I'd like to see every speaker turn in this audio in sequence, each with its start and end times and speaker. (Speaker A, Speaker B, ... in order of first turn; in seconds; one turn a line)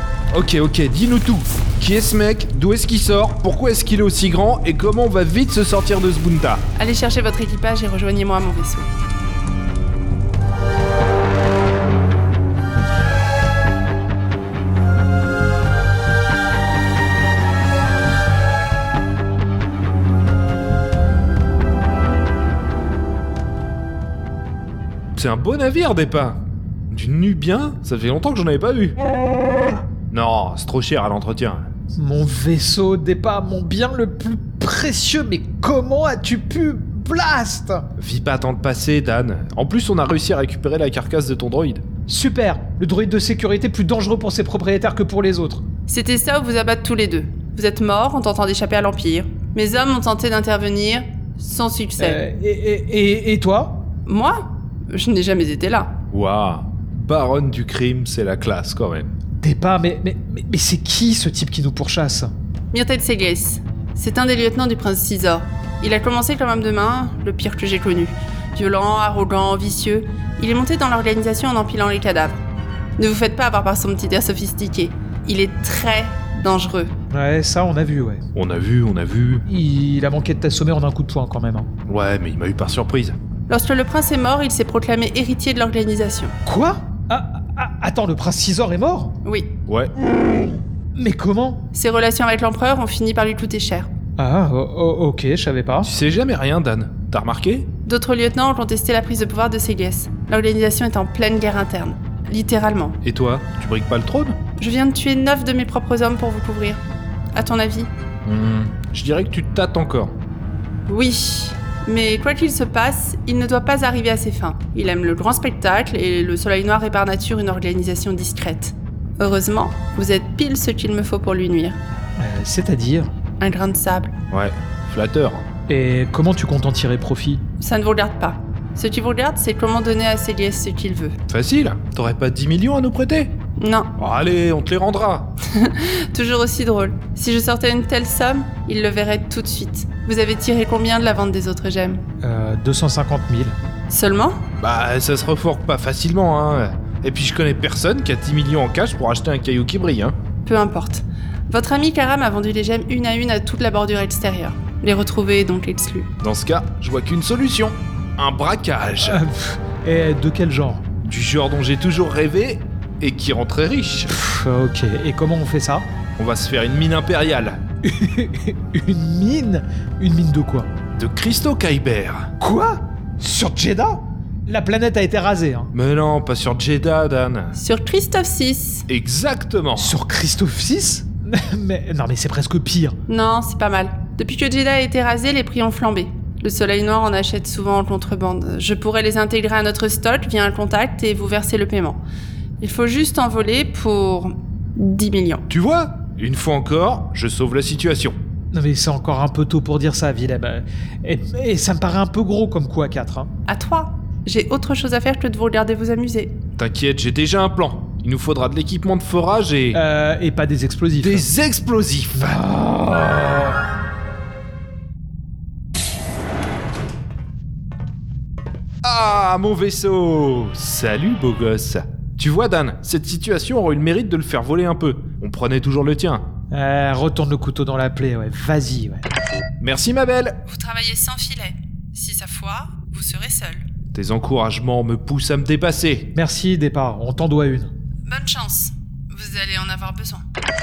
Speaker A: 0.3-6.7
Speaker B: 6.8-8.9
Speaker A: 25.2-29.0
Speaker A: 30.1-31.6
Speaker C: 32.0-37.9
Speaker A: 38.0-41.8
Speaker C: 42.1-45.6
Speaker B: 45.9-52.2
Speaker C: 52.0-53.8
Speaker B: 54.1-55.9
Speaker A: 56.1-59.1
Speaker C: 59.4-62.3
Speaker B: 62.7-72.4
Speaker B: 73.0-76.9
Speaker C: 77.1-78.2
Speaker A: 78.3-79.4
Speaker C: 79.5-81.7
Speaker A: 81.9-83.2
Speaker B: 83.5-86.3
Speaker C: 86.5-89.2
Speaker A: 89.7-89.9
Speaker C: 91.0-91.7
Speaker B: 91.7-93.9
Speaker C: 94.2-95.9
Speaker A: 95.8-97.7
Speaker B: 97.9-103.0
Speaker A: 103.0-104.4
Speaker B: 104.6-106.8
Speaker B: 107.3-107.9
Speaker A: 108.2-110.2
Speaker B: 110.9-121.8
Speaker C: 122.2-123.1
Speaker B: 123.4-124.1
Speaker A: 124.3-125.5
Speaker C: 125.7-127.4
Speaker B: 127.6-131.1
Speaker A: 131.3-133.3
Speaker B: 133.6-133.9
Speaker A: 134.0-135.3
Speaker B: 135.5-142.0
Speaker C: 142.2-143.6
Speaker B: 143.9-144.4
Speaker A: 144.6-150.2
Speaker B: 150.4-156.1
Speaker A: 156.2-159.2
Speaker C: 159.1-160.8
Speaker A: 161.0-164.1
Speaker C: 164.1-165.9
Speaker A: 166.2-167.6
Speaker C: 167.8-170.7
Speaker A: 170.9-172.3
Speaker C: 172.4-175.7
Speaker A: 175.7-177.6
Speaker B: 177.6-178.8
Speaker A: 178.9-180.0
Speaker C: 179.8-183.0
Speaker B: 183.1-192.0
Speaker B: 192.6-195.4
Speaker A: 195.5-198.2
Speaker C: 198.5-203.3
Speaker B: 203.5-206.3
Speaker A: 206.6-209.8
Speaker C: 209.7-211.3
Speaker A: 211.0-212.4
Speaker C: 212.2-213.6
Speaker A: 218.8-226.2
Speaker C: 226.5-229.1
Speaker A: 229.6-230.4
Speaker B: 230.5-233.6
Speaker A: 233.9-236.1
Speaker C: 236.2-237.7
Speaker B: 238.1-240.2